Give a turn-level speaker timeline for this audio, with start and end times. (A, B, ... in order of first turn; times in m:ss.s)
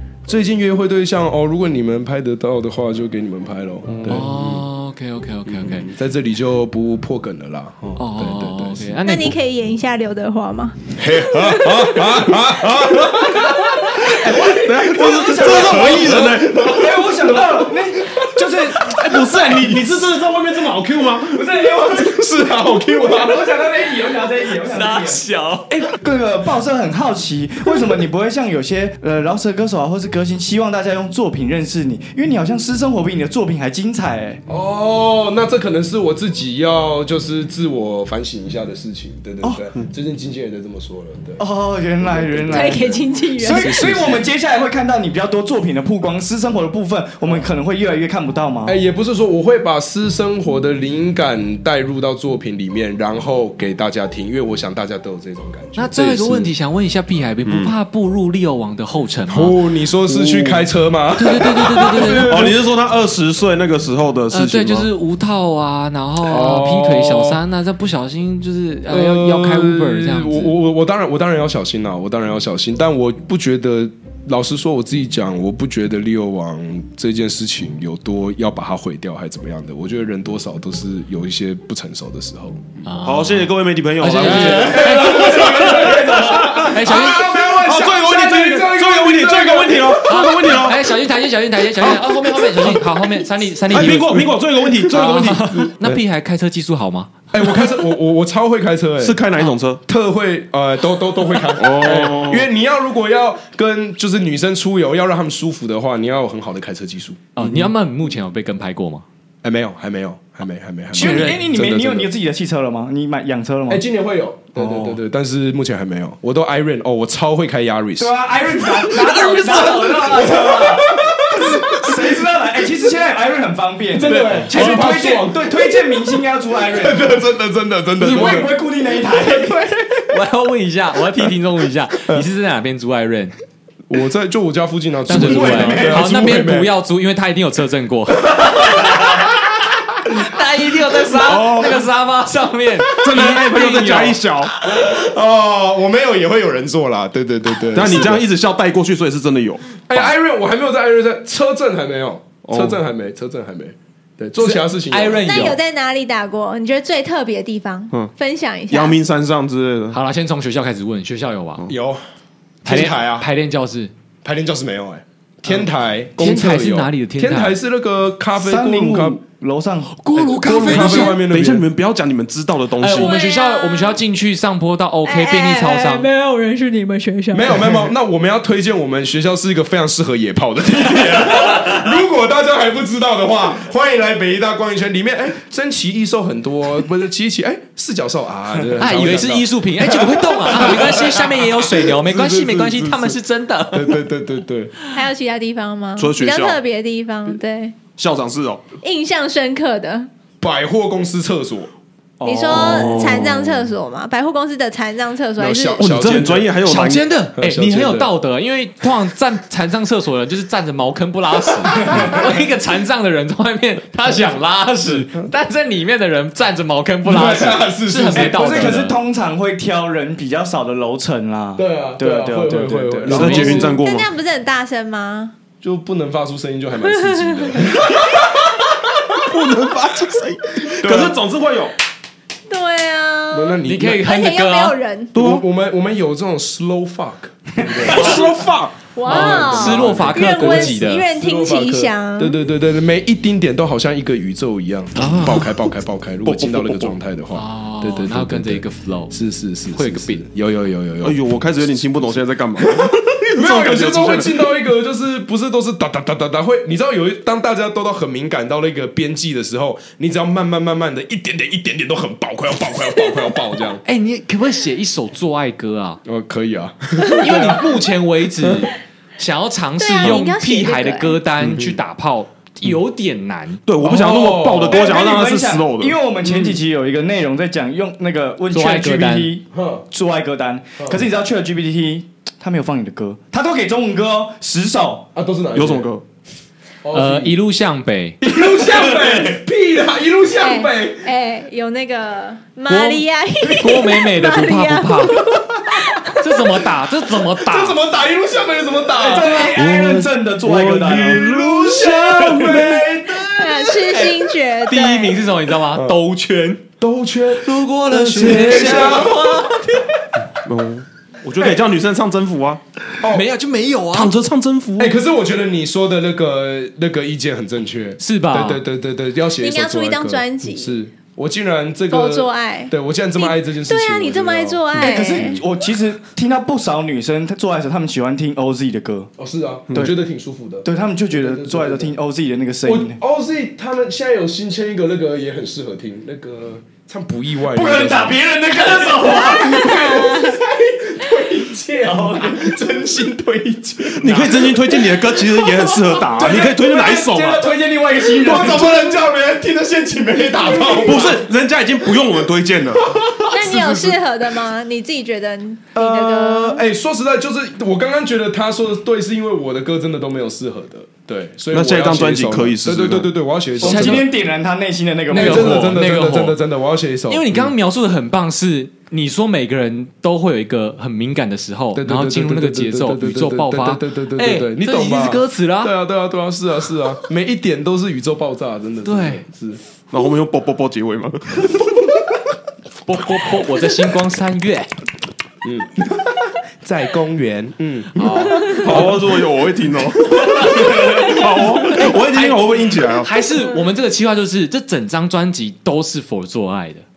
0:00.3-0:04.6 A
0:04.1-0:05.9 B
0:05.5-0:09.0 A
0:08.0-0:09.4 B
0:09.0-0:10.8 C
0:11.0-0:17.6 A
0:11.3-0:11.8 C
0:14.1-0:19.8 D
0:14.5-0:17.1 E
0:18.8-0:21.4 E
0:20.1-0:21.2 A
0:21.3-0:34.4 D
0:21.9-0:23.6 A
0:24.6-0:25.7 B
0:34.5-0:41.4 A
0:41.4-0:48.8 D
0:42.0-0:44.3 A
0:42.5-0:44.0 C
0:48.6-0:56.5 A
0:55.8-0:59.6 B
0:57.4-0:57.7 E
0:59.3-1:02.5 A
1:00.1-1:00.6 E
1:01.2-1:02.5 B
1:01.8-1:04.9 E
1:04.3-1:10.5 B
1:06.2-1:07.4 A
1:08.9-1:22.6 A
1:22.9-1:25.9 B
1:23.0-1:24.9 E
1:24.3-1:26.7 D
1:24.4-1:30.3 A
1:26.5-1:30.9 E
1:26.7-1:27.3 B
1:30.0-1:37.2 B
1:31.8-1:32.8 E
1:33.7-1:35.7 E
1:37.3-1:39.2 A
1:39.0-1:39.8 E
1:39.9-1:47.2 A
1:41.5-1:42.5 E
1:47.4-1:49.0 B
1:49.4-1:52.1 A
1:50.9-1:53.8 D
1:51.0-1:51.5 B
1:53.7-2:02.1 A
1:54.6-1:55.0 D
1:58.0-2:07.2 D
1:59.3-1:59.6 B
2:03.9-2:05.9 A
2:06.7-2:08.5 A
2:08.0-2:09.7 D
2:10.1-2:13.3 B
2:13.9-2:16.7 A
2:15.1-2:19.4 B
2:15.2-2:16.2 D
2:20.0-2:24.2 B
2:21.1-2:21.8 E
2:23.0-2:24.6 E
2:24.6-2:28.3 A
2:27.7-2:29.8 E
2:29.9-2:35.6 A
2:32.4-2:32.8 E
2:34.4-2:35.6 B
2:35.2-2:39.0 C
2:38.7-2:40.0 E
2:39.9-2:41.6 B
2:41.7-2:42.0 A
2:42.6-2:43.9 B
2:42.7-2:43.3 A
2:44.2-2:49.2 A
2:46.2-2:47.6 B
2:48.4-2:51.2 D
2:50.2-2:53.2 E
2:50.5-2:51.7 A
2:52.8-2:56.1 B
2:53.0-2:54.0 C
2:55.0-2:57.8 C
2:57.3-3:13.2 A
3:08.7-3:14.0 B
3:13.7-3:14.7 A
3:14.9-3:17.8 C
3:16.0-3:16.6 E
3:17.9-3:18.6 E
3:18.8-3:20.1 C
3:20.4-3:21.7 A
3:22.2-3:23.1 D
3:22.2-3:26.0 C
3:22.5-3:23.6 E
3:25.4-3:26.6 A
3:25.8-3:27.1 E
3:26.6-3:39.0 B
3:27.4-3:28.1 A
3:37.0-3:38.9 A
3:38.1-3:43.4 D
3:41.6-3:43.8 A
3:43.1-3:44.1 E
3:43.4-3:45.3 C
3:45.6-3:48.5 A
3:46.8-3:47.7 C
3:49.1-3:51.7 E
3:50.8-3:51.2 A
3:52.5-3:55.2 C
3:53.3-3:54.1 A
3:53.6-3:54.8 B
3:55.2-3:55.4 E
3:55.2-3:58.2 A
3:57.8-3:58.8 E
3:58.9-4:02.4 C
3:59.0-4:01.1 B
3:59.0-4:11.9 A
4:05.0-4:05.5 B
4:06.2-4:07.0 E
4:07.3-4:09.2 B
4:09.7-4:10.2 B
4:11.0-4:14.5 E
4:12.8-4:23.8 A
4:23.8-4:26.0 B
4:26.0-4:27.8 A
4:27.1-4:33.6 B
4:29.8-4:31.2 C
4:31.4-4:31.8 E
4:33.7-4:36.6 E
4:33.8-4:34.9 A
4:34.6-4:45.1 D
4:38.5-4:39.3 B
4:39.5-4:39.8 A
4:45.2-4:45.9 A
4:45.6-4:46.0 E
4:46.8-4:47.4 A
4:46.9-4:48.2 B
4:48.2-4:51.1 A
4:50.4-4:56.2 C
4:52.7-4:55.2 B
4:56.1-4:57.8 B
4:57.4-4:59.5 A
4:59.0-5:01.3 D
4:59.5-5:02.9 E
5:00.8-5:03.7 A
5:03.4-5:05.2 C
5:04.6-5:06.6 B
5:05.7-5:06.0 A
5:06.8-5:09.3 A
5:07.3-5:09.9 B
5:08.2-5:09.1 D
5:10.4-5:12.6 E
5:13.0-5:14.1 B
5:13.9-5:15.0 E
5:14.8-5:25.0 A
5:18.0-5:18.6 B
5:19.4-5:20.8 C
5:21.9-5:25.4 C
5:24.7-5:29.1 D
5:29.2-5:32.0 A
5:30.6-5:33.0 D
5:32.6-5:44.7 A
5:37.5-5:40.0 D
5:39.3-5:40.4 C
5:41.8-5:42.5 D
5:44.0-5:47.5 E
5:46.1-5:48.8 D
5:48.1-5:51.2 A
5:50.8-5:52.8 E
5:52.9-5:53.9 A
5:53.3-5:56.6 C
5:55.8-6:04.1 A
6:01.5-6:03.1 E
6:03.6-6:05.8 D
6:03.6-6:04.1 B
6:05.1-6:07.3 A
6:05.1-6:06.4 B
6:07.1-6:15.7 B
6:11.8-6:19.6 A
6:18.8-6:19.2 B
6:19.9-6:21.6 E
6:22.9-6:24.7 B
6:25.4-6:25.7 A
6:26.6-6:29.0 A
6:28.0-6:28.9 B
6:28.5-6:33.1 E
6:30.3-6:31.0 A
6:30.4-6:36.8 B